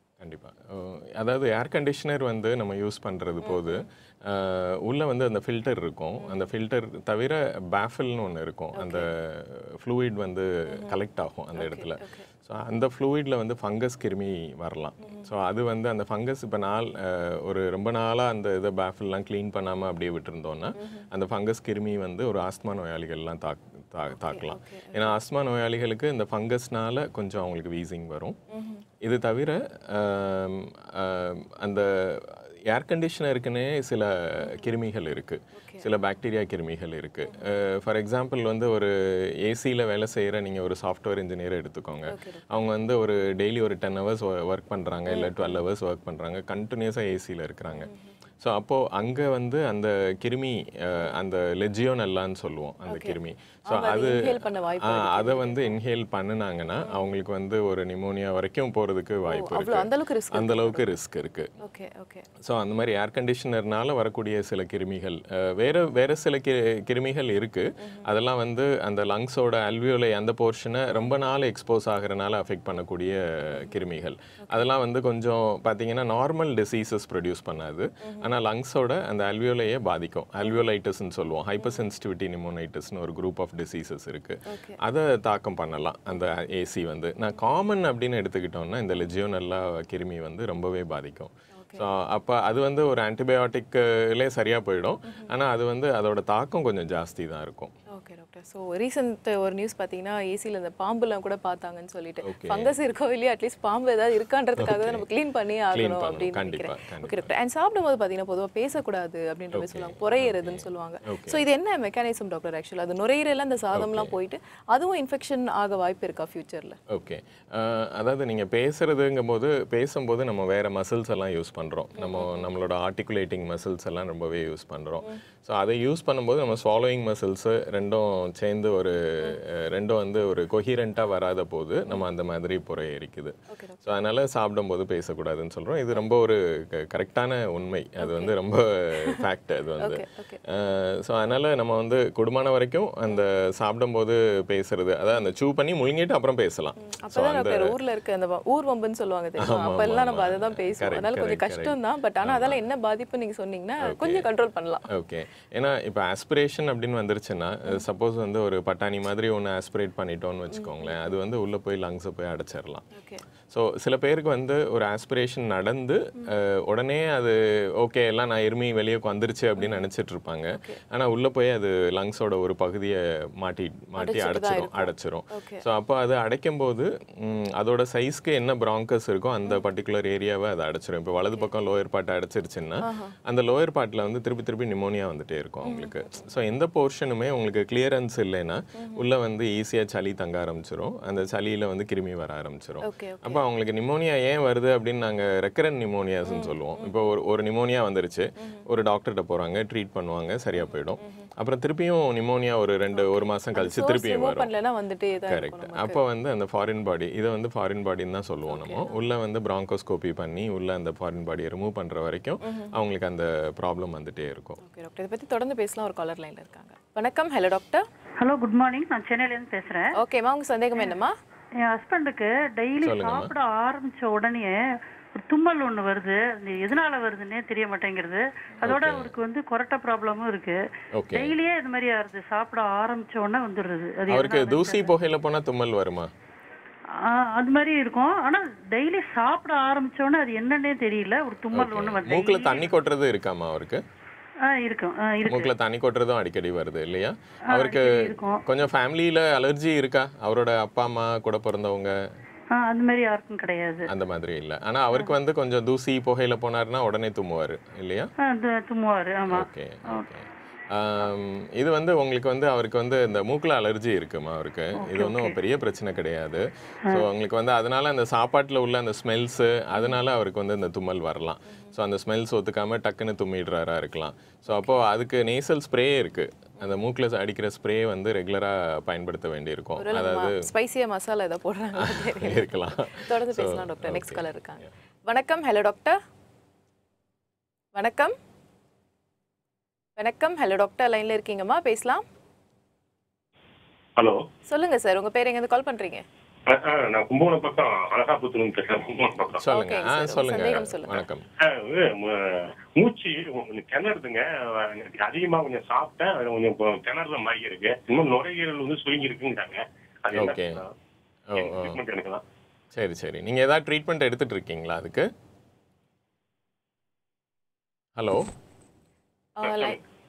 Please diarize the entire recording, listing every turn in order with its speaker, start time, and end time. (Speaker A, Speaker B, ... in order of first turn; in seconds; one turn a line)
Speaker A: 0.2-28.4
Speaker B: 3.4-3.8
Speaker B: 6.2-6.5
Speaker B: 8.7-9.1
Speaker B: 11.6-12.3
Speaker B: 15.0-15.3
Speaker B: 20.8-21.1
Speaker B: 24.1-25.1
Speaker B: 28.5-28.8
Speaker A: 29.0-61.5
Speaker B: 35.5-35.9
Speaker B: 42.1-42.4
Speaker B: 45.1-45.6
Speaker B: 52.9-53.2
Speaker B: 53.7-55.8
Speaker B: 59.3-60.9
Speaker B: 61.6-62.3
Speaker A: 62.4-97.7
Speaker B: 78.0-78.3
Speaker B: 84.5-84.8
Speaker B: 91.5-91.8
Speaker B: 97.9-116.8
Speaker A: 102.2-102.7
Speaker A: 104.6-105.0
Speaker A: 105.7-107.3
Speaker A: 109.5-111.4
Speaker A: 113.7-114.1
Speaker A: 116.9-147.8
Speaker B: 122.0-122.5
Speaker B: 133.5-133.8
Speaker B: 138.0-138.3
Speaker B: 139.8-140.4
Speaker B: 146.8-154.9
Speaker A: 149.4-152.6
Speaker A: 153.8-154.3
Speaker A: 154.9-162.8
Speaker B: 160.5-161.0
Speaker B: 162.9-163.2
Speaker A: 163.5-204.5
Speaker B: 169.6-169.8
Speaker B: 170.5-170.8
Speaker B: 174.0-175.6
Speaker B: 182.8-183.1
Speaker B: 185.6-185.9
Speaker B: 188.8-189.0
Speaker B: 192.8-193.4
Speaker B: 196.2-196.6
Speaker B: 201.0-201.2
Speaker B: 202.9-206.0
Speaker A: 205.3-214.6
Speaker B: 208.5-209.0
Speaker B: 212.4-212.7
Speaker B: 214.6-217.8
Speaker C: 218.2-220.0
Speaker B: 219.9-221.1
Speaker C: 221.6-224.6
Speaker A: 222.8-223.3
Speaker C: 225.1-230.6
Speaker A: 228.6-229.1
Speaker A: 230.9-231.4
Speaker C: 231.1-234.9
Speaker A: 234.1-236.1
Speaker C: 236.9-242.7
Speaker A: 241.5-243.8
Speaker C: 244.4-245.5
Speaker A: 245.2-252.0
Speaker C: 247.5-248.4
Speaker C: 252.5-253.9
Speaker A: 253.9-258.1
Speaker C: 258.2-260.0
Speaker A: 259.3-280.5
Speaker C: 264.8-265.3
Speaker B: 274.5-274.8
Speaker B: 279.8-286.0
Speaker A: 281.8-284.2
Speaker B: 287.7-288.1
Speaker B: 290.0-292.0
Speaker B: 294.5-296.0
Speaker D: 296.5-299.4
Speaker A: 299.4-301.3
Speaker B: 299.5-301.0
Speaker D: 301.4-310.7
Speaker A: 310.1-310.6
Speaker A: 311.3-311.8
Speaker D: 311.4-312.2
Speaker A: 312.7-315.1
Speaker A: 317.9-318.3
Speaker B: 319.4-319.8
Speaker D: 319.4-319.8